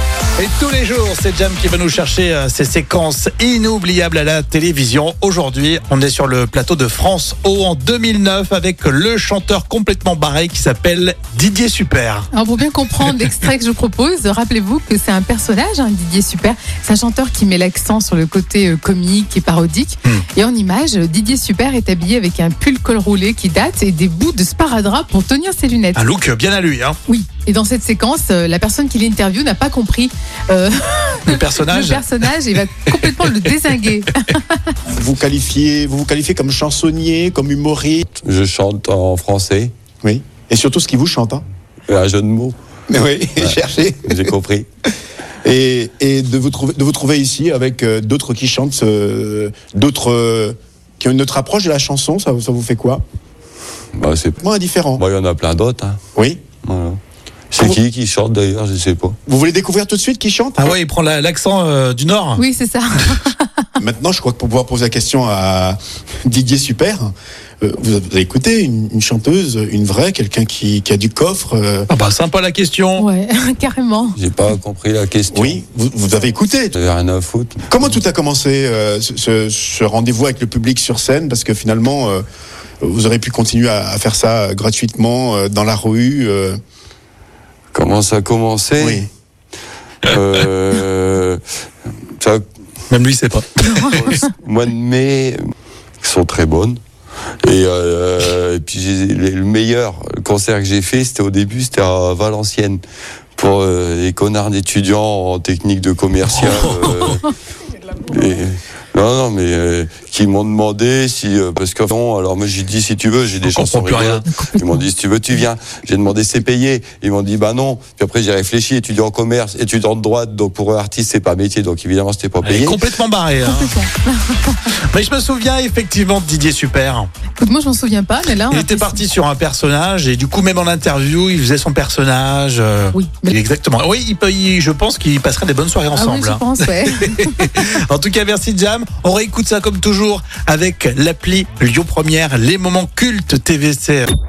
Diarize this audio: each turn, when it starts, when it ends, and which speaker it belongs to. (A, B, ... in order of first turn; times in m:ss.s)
0:00.4-0:12.3 A
0:12.3-0:26.1 B
0:26.0-0:27.0 A
0:27.1-0:34.8 B
0:31.3-0:33.5 A
0:34.9-0:38.0 C
0:38.2-0:39.7 D
0:40.0-0:41.4 C
0:41.9-0:42.6 D
0:42.9-0:44.2 C
0:43.4-0:44.7 D
0:45.4-0:53.0 C
0:54.0-0:56.0 D
0:54.4-0:55.0 C
0:56.2-0:56.4 C
0:56.6-0:57.0 D
0:57.5-0:59.2 D
0:59.3-1:00.8 C
1:00.6-1:02.4 A
1:02.4-1:03.7 B
1:03.8-1:11.9 C
1:11.9-1:13.1 A
1:13.0-1:14.2 B
1:14.1-1:15.6 D
1:15.3-1:16.8 C
1:16.7-1:17.8 D
1:17.7-1:22.2 C
1:22.8-1:26.6 C
1:27.7-1:29.0 D
1:28.8-1:29.1 C
1:30.0-1:31.4 D
1:32.2-1:32.4 D
1:32.9-1:34.3 A
1:33.9-1:35.4 D
1:36.0-1:36.8 D
1:37.4-1:42.8 D
1:43.4-1:47.3 D
1:46.4-1:47.1 A
1:48.0-2:02.8 D
1:53.5-1:54.6 A
2:02.4-2:03.8 A
2:03.4-2:04.6 B
2:04.9-2:07.1 A
2:07.4-2:09.0 B
2:08.5-2:24.1 A
2:12.9-2:13.3 B
2:15.9-2:17.6 B